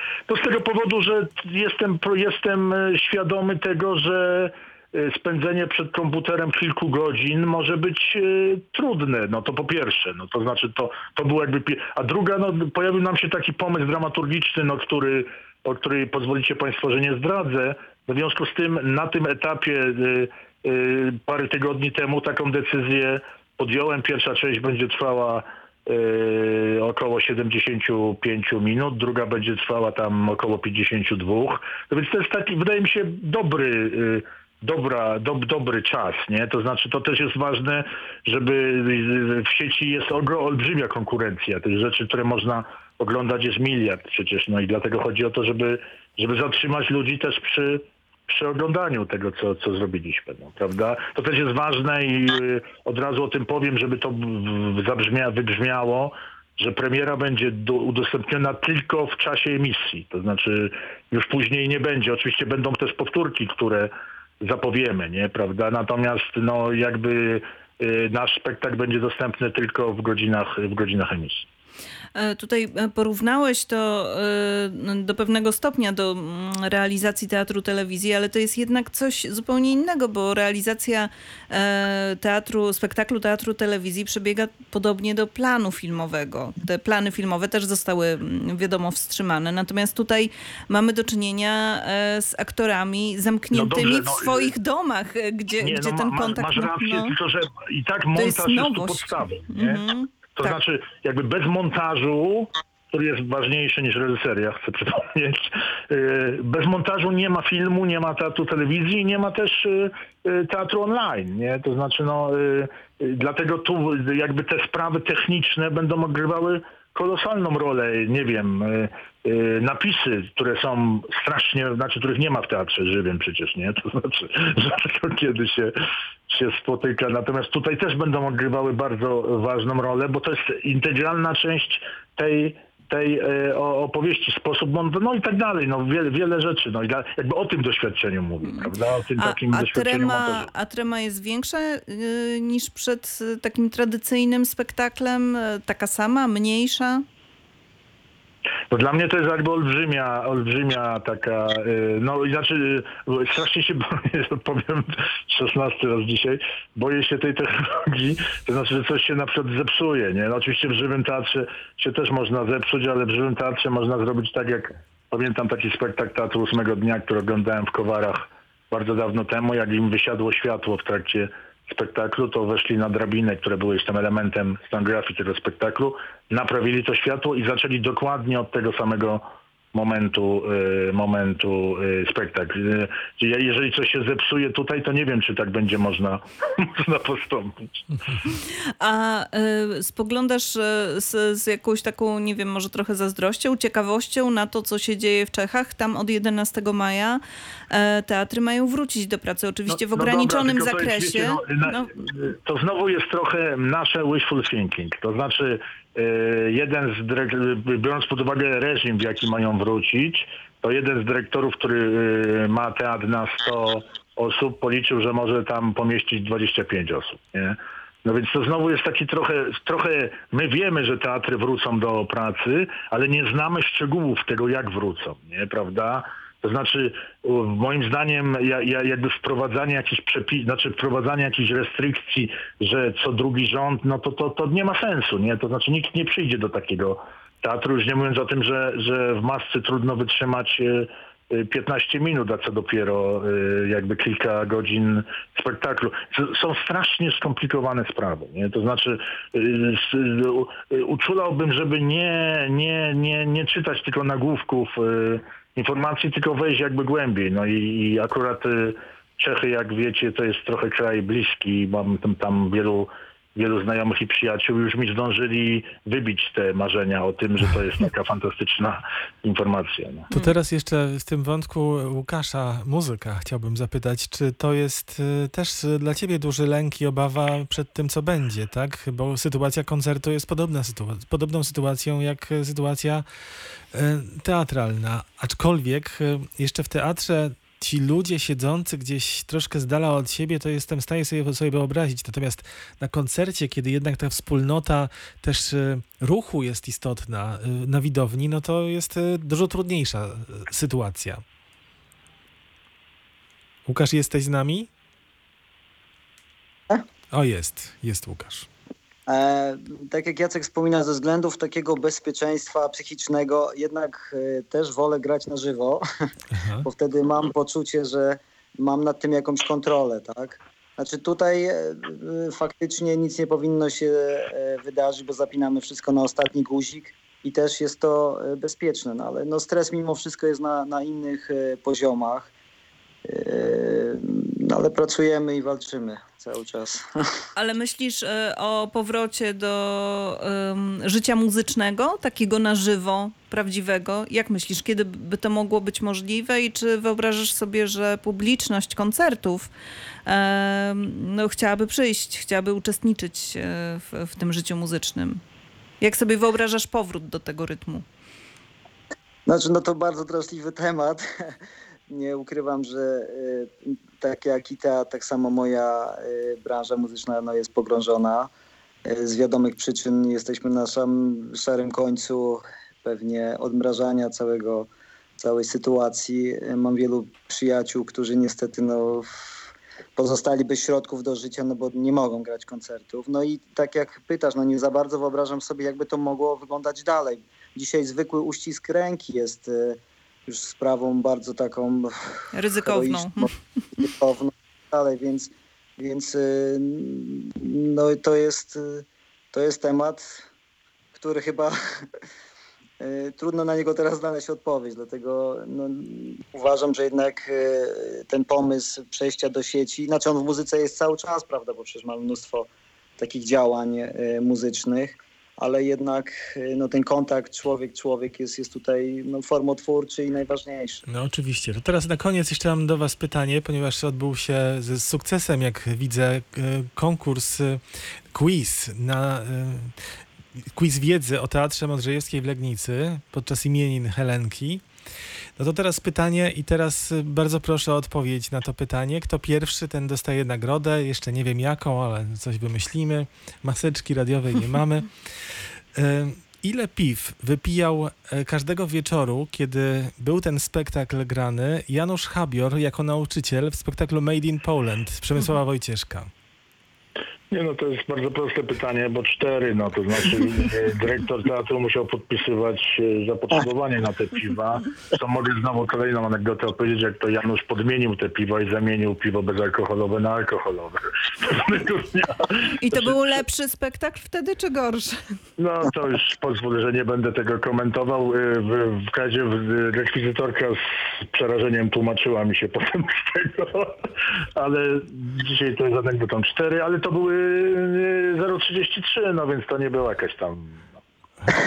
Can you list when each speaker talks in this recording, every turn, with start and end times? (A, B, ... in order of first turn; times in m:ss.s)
0:00.3-1:11.5 A
1:12.2-1:37.2 B
1:33.5-1:34.5 A
1:35.6-1:39.8 A
1:38.2-1:40.6 B
1:40.3-2:20.5 A
2:18.4-2:27.0 B
2:28.7-3:07.7 A
3:08.8-3:22.1 B
3:19.7-4:30.1 A
4:30.1-4:43.1 C
4:43.7-5:01.2 C
5:03.7-5:04.7 C
5:07.1-5:08.5 C
5:09.1-5:15.8 D
5:16.3-5:16.7 C
5:16.6-5:32.3 D
5:33.1-5:36.9 D
5:37.4-5:49.5 B
5:50.1-5:55.2 B
5:55.8-5:57.8 B
5:59.3-6:01.4 D
6:01.9-6:08.3 D
6:08.8-6:19.2 D
6:20.0-6:33.3 D
6:32.3-6:33.3 B
6:33.8-6:40.2 D
6:40.9-6:41.6 D
6:42.8-7:00.8 D
7:00.9-7:14.6 C
7:15.4-7:36.1 C
7:37.3-7:53.0 A
7:52.6-7:55.2 B
7:55.4-8:10.7 A